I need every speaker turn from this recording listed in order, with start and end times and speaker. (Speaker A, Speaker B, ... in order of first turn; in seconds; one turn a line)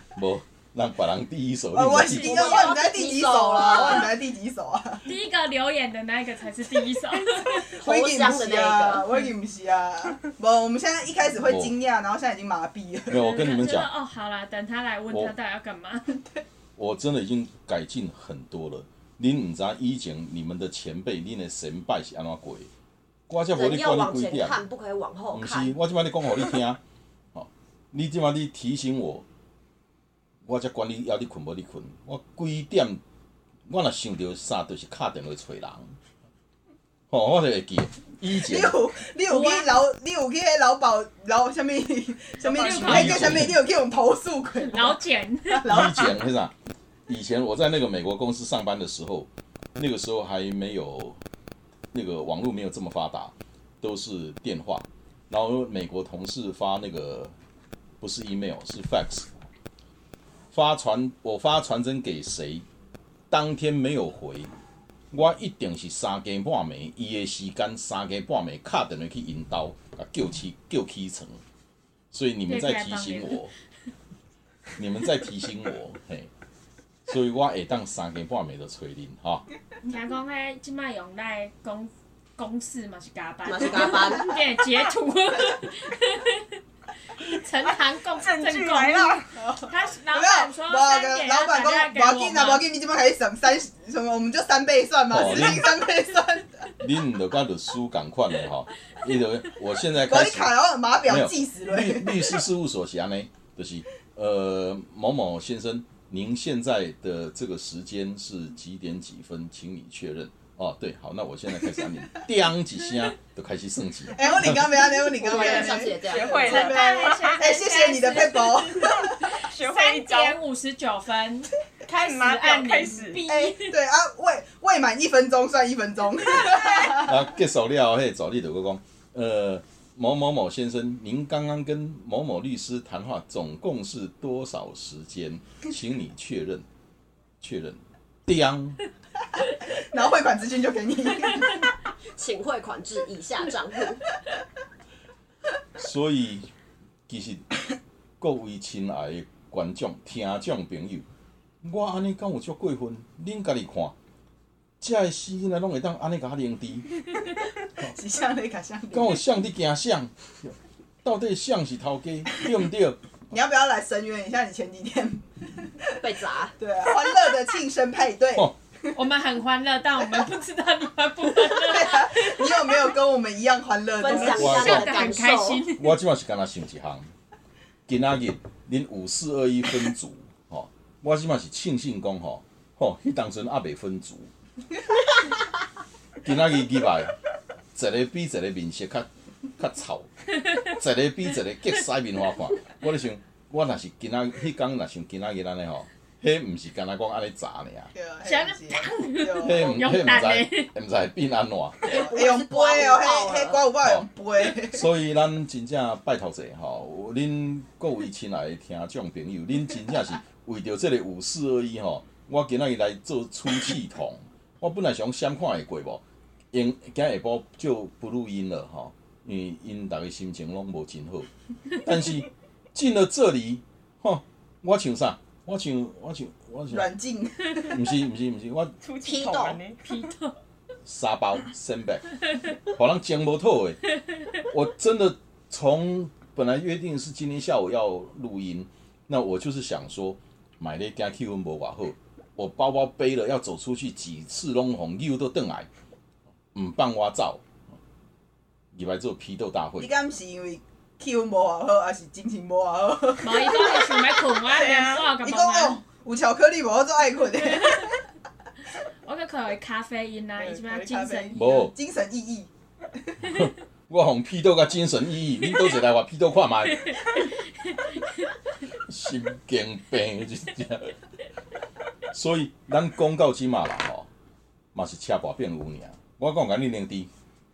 Speaker A: 0.2-2.6
Speaker B: 1.7-5.0
Speaker C: 2.2-4.1
Speaker D: 2.2-2.7
Speaker D: 5.0-7.7
Speaker B: 7.7-13.2
Speaker C: 7.8-9.1
Speaker A: 11.4-11.7
Speaker A: 13.1-13.9
Speaker D: 13.1-16.2
Speaker A: 16.8-22.7
Speaker A: 23.3-24.6
Speaker C: 23.5-25.8
Speaker A: 25.3-26.8
Speaker A: 27.3-29.2
Speaker A: 30.4-33.0
Speaker A: 33.7-36.0
Speaker A: 37.1-38.8
Speaker B: 38.4-45.0
Speaker D: 39.3-39.8
Speaker D: 42.4-43.4
Speaker E: 42.5-42.9
Speaker A: 42.7-43.6
Speaker D: 44.6-45.9
Speaker B: 45.5-46.2
Speaker A: 45.7-46.5
Speaker A: 47.1-51.2
Speaker A: 51.9-57.3
Speaker A: 58.0-59.3
Speaker A: 60.5-62.6
Speaker A: 63.3-64.5
Speaker A: 65.1-71.4
Speaker A: 72.1-73.5
Speaker D: 72.5-73.5
Speaker A: 74.8-76.3
Speaker A: 77.1-79.5
Speaker D: 79.8-86.5
Speaker C: 83.5-84.4
Speaker D: 87.2-92.7
Speaker E: 88.2-89.3
Speaker B: 89.4-96.7
Speaker A: 95.1-95.8
Speaker A: 96.8-100.5
Speaker B: 100.1-102.4
Speaker A: 101.0-114.8
Speaker B: 114.1-119.2
Speaker C: 115.1-116.7
Speaker E: 115.5-117.3
Speaker D: 116.4-123.8
Speaker E: 118.8-120.4
Speaker E: 121.9-123.2
Speaker B: 123.3-127.2
Speaker A: 126.9-136.7
Speaker A: 137.4-138.8
Speaker B: 139.7-141.7
Speaker C: 142.2-144.0
Speaker A: 145.8-146.5
Speaker A: 147.1-147.5
Speaker A: 148.2-151.1
Speaker A: 151.6-153.9
Speaker A: 154.8-157.0
Speaker B: 157.8-159.2
Speaker A: 158.9-163.0
Speaker B: 163.3-165.9
Speaker C: 166.0-166.5
Speaker B: 166.6-168.5
Speaker D: 168.9-172.9
Speaker B: 171.5-174.7
Speaker C: 174.0-175.7
Speaker D: 174.1-175.9
Speaker A: 174.4-175.0
Speaker A: 175.8-177.1
Speaker A: 177.9-184.3
Speaker A: 186.2-187.2
Speaker A: 187.8-189.1
Speaker A: 189.6-197.9
Speaker B: 197.9-200.2
Speaker D: 198.2-200.7
Speaker A: 199.4-201.9
Speaker C: 201.9-203.7
Speaker B: 201.9-204.9
Speaker A: 203.8-221.3
Speaker A: 221.8-226.9
Speaker B: 226.7-227.8
Speaker A: 227.6-228.8
Speaker E: 228.8-229.9
Speaker C: 229.0-229.6
Speaker D: 229.8-230.3
Speaker A: 230.8-233.8
Speaker A: 234.4-245.7
Speaker A: 246.5-247.4
Speaker A: 248.7-249.9
Speaker B: 249.8-254.1
Speaker D: 253.2-255.8
Speaker E: 254.5-255.0
Speaker B: 255.0-258.0
Speaker D: 257.6-257.9
Speaker D: 259.1-261.7
Speaker B: 260.4-262.5
Speaker A: 261.4-261.7
Speaker A: 263.2-267.0
Speaker A: 268.9-270.9
Speaker A: 272.1-274.1
Speaker A: 274.7-277.1